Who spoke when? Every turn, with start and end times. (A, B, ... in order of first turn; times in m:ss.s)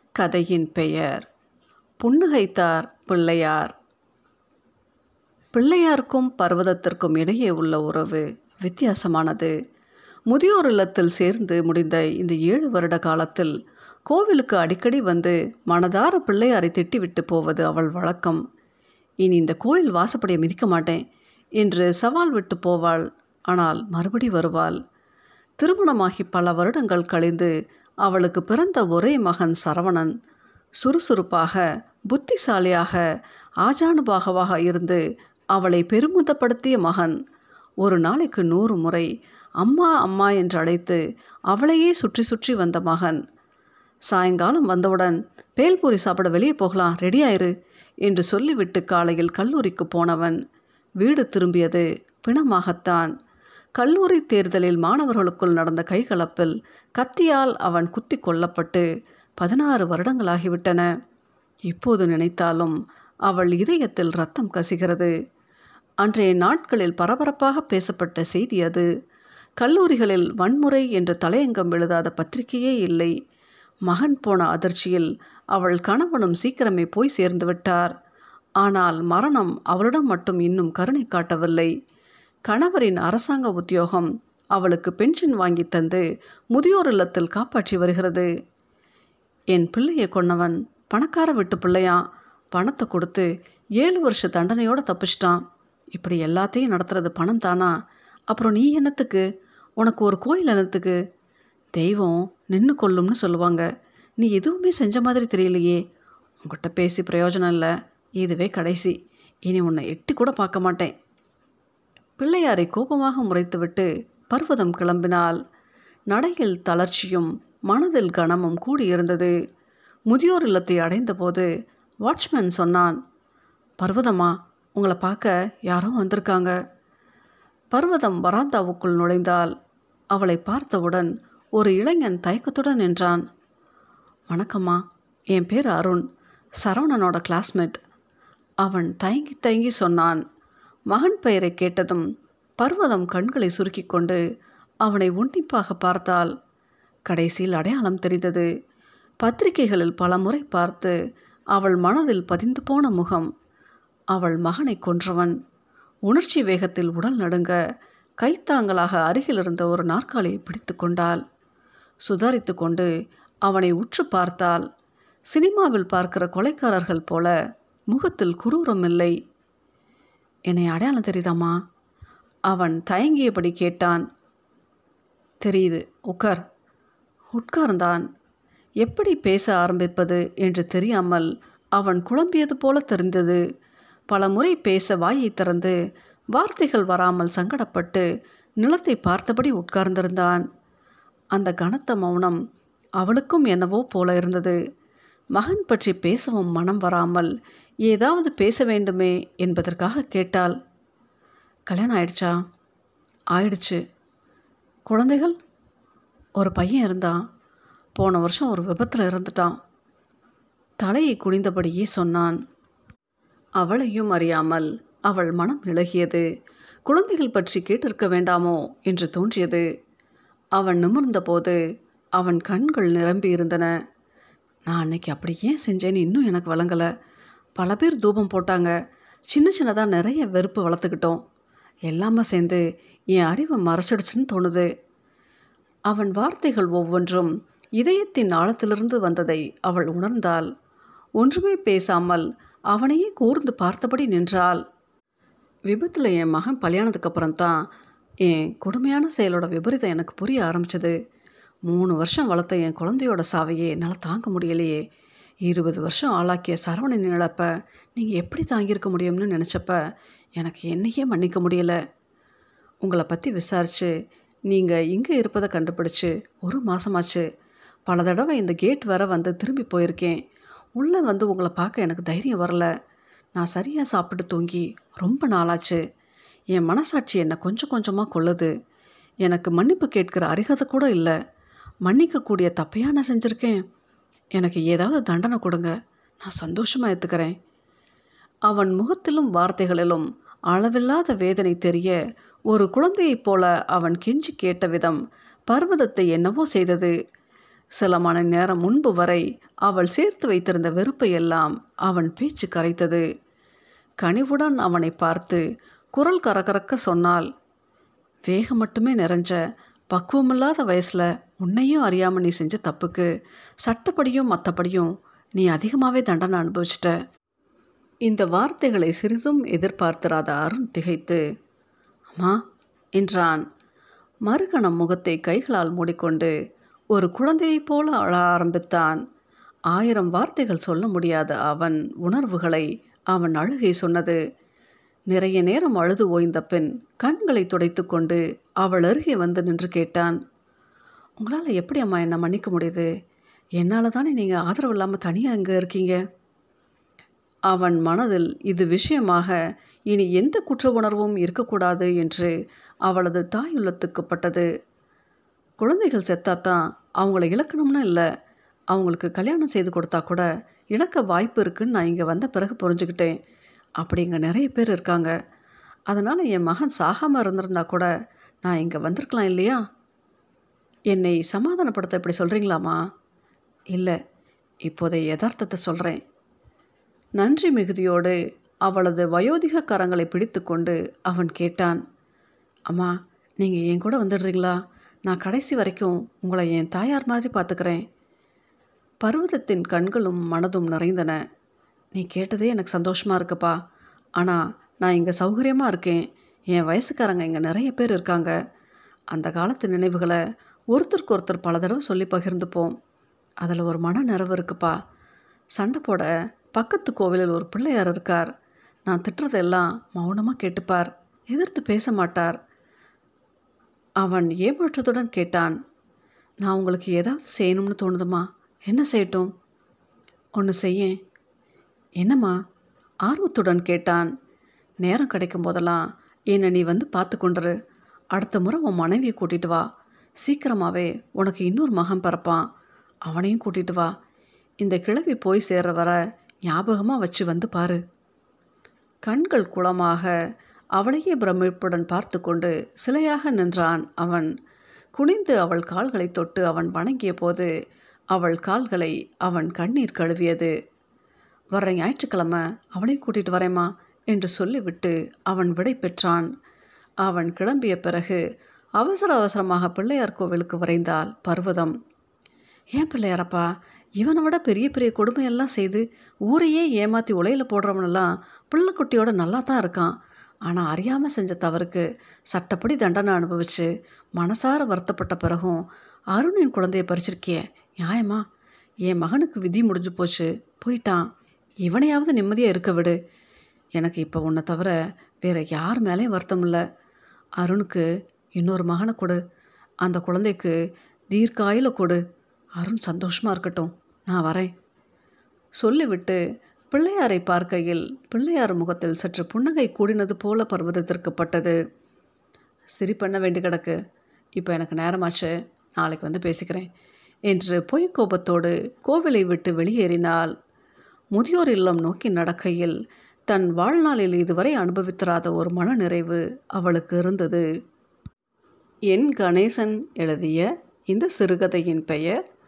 0:00.2-0:01.2 A
0:02.0-0:03.7 A
0:05.5-0:09.5 A
0:10.3-0:13.5 A
0:14.1-0:18.4 A
0:19.2-0:21.0 A
0:21.6-0:24.8 A
0:25.6-0:27.5 A
0:28.0-0:30.1 A
0:30.8-0:33.0 A
0:33.6-0:35.0 A
0:35.5-0:37.1 A
0:37.8-0:39.1 A
0:39.6-0:43.2 A
0:44.1-0:47.5 A
0:48.0-0:50.4 A
0:51.0-0:53.1 A
0:53.8-0:58.8 A
0:59.4-1:00.9 A
1:01.7-1:02.8 A
1:03.3-1:05.1 A
1:06.0-1:08.9 A
1:09.6-1:13.1 A
1:13.8-1:17.9 A
1:18.6-1:21.7 A
1:22.5-1:28.3 A
1:29.5-1:35.4 A
1:35.9-1:37.8 A
1:38.3-1:39.2 A
1:39.8-1:41.0 A
1:41.8-1:43.7 A
1:44.2-1:45.8 A
1:46.4-1:50.9 A
1:52.2-1:55.4 A
1:56.1-1:59.3 A
2:00.1-2:01.4 A
2:02.0-2:03.0 A
2:03.8-2:06.6 A
2:07.7-2:09.5 A
2:10.1-2:13.2 A
2:14.3-2:16.0 A
2:16.6-2:17.8 A
2:18.6-2:20.2 A
2:20.9-2:22.0 A
2:22.6-2:24.2 A
2:24.8-2:26.3 A
2:27.1-2:28.5 A
2:29.2-2:31.0 A
2:31.5-2:33.3 A
2:34.1-2:35.3 A
2:36.1-2:37.6 A
2:38.2-2:41.2 A
2:42.1-2:42.9 A
2:43.4-2:44.7 A
2:45.3-2:47.3 A
2:47.9-2:49.1 A
2:50.5-2:51.6 A
2:52.5-2:54.0 A
2:55.4-2:56.4 A
2:57.3-2:58.0 A
2:58.8-3:03.4 A
3:04.1-3:05.8 A
3:06.3-3:08.0 A
3:08.6-3:10.4 A
3:11.3-3:12.4 A
3:13.0-3:14.6 A
3:15.3-3:17.3 A
3:17.9-3:20.6 A
3:21.7-3:22.3 A
3:23.3-3:23.8 A
3:24.9-3:25.4 A
3:26.4-3:27.2 A
3:28.0-3:29.6 A
3:30.8-3:32.4 A
3:33.6-3:36.2 A
3:36.9-3:39.7 A
3:40.6-3:41.6 A
3:42.2-3:43.7 A
3:44.7-3:46.9 A
3:47.6-3:48.7 A
3:49.3-3:51.2 A
3:51.9-3:54.7 A
3:55.9-4:00.5 A
4:01.2-4:04.6 A
4:05.7-4:07.6 A
4:08.2-4:11.0 A
4:11.7-4:14.8 A
4:15.4-4:19.8 A
4:20.4-4:21.8 A
4:22.8-4:23.9 A
4:24.5-4:27.2 A
4:27.9-4:30.2 A
4:30.8-4:32.7 A
4:33.4-4:35.8 A
4:36.5-4:38.5 A
4:39.2-4:41.1 A
4:41.8-4:43.6 A
4:44.3-4:47.3 A
4:48.5-4:52.0 A
4:52.5-4:56.9 A
4:57.8-5:03.0 A
5:04.0-5:07.3 A
5:08.3-5:09.4 A
5:09.9-5:13.1 A
5:13.6-5:16.9 A
5:18.1-5:21.2 A
5:22.1-5:22.4 A
5:23.0-5:23.4 A
5:24.2-5:26.3 A
5:26.9-5:29.0 A
5:29.7-5:34.2 A
5:35.1-5:40.2 A
5:41.2-5:42.9 A
5:43.6-5:46.0 A
5:47.5-5:49.4 A
5:49.9-5:52.3 A
5:52.8-5:54.5 A
5:55.6-5:58.1 A
5:58.7-6:03.1 A
6:03.8-6:05.1 A
6:05.9-6:07.9 A
6:08.4-6:09.6 A
6:10.9-6:12.8 A
6:14.6-6:16.0 A
6:17.2-6:21.8 A
6:22.7-6:27.8 A
6:29.0-6:31.2 A
6:31.9-6:33.6 A
6:34.2-6:38.3 A
6:39.1-6:40.2 A
6:40.7-6:42.8 A
6:43.4-6:44.8 A
6:45.6-6:48.3 A
6:48.9-6:52.4 A
6:54.0-6:55.6 A
6:56.4-6:59.3 A
7:00.4-7:01.0 A
7:02.0-7:02.3 A
7:03.0-7:04.1 A
7:04.8-7:07.5 A
7:08.1-7:09.6 A
7:10.2-7:12.4 A
7:13.1-7:13.9 A
7:14.6-7:17.8 A
7:19.0-7:20.1 A
7:20.8-7:24.3 A
7:24.9-7:27.5 A
7:28.1-7:30.5 A
7:31.5-7:36.3 A
7:37.0-7:38.2 A
7:38.8-7:41.7 A
7:42.7-7:43.5 A
7:44.0-7:58.2 A
7:58.8-8:01.1 A
8:01.6-8:03.0 A
8:03.8-8:06.6 A
8:07.4-8:07.8 A
8:08.4-8:09.2 A
8:09.8-8:10.5 A
8:11.1-8:12.0 A
8:12.6-8:14.5 A
8:15.6-8:21.6 A
8:22.7-8:23.8 A
8:24.4-8:26.7 A
8:27.3-8:30.3 A
8:31.1-8:32.8 A
8:33.3-8:37.4 A
8:38.9-8:42.2 A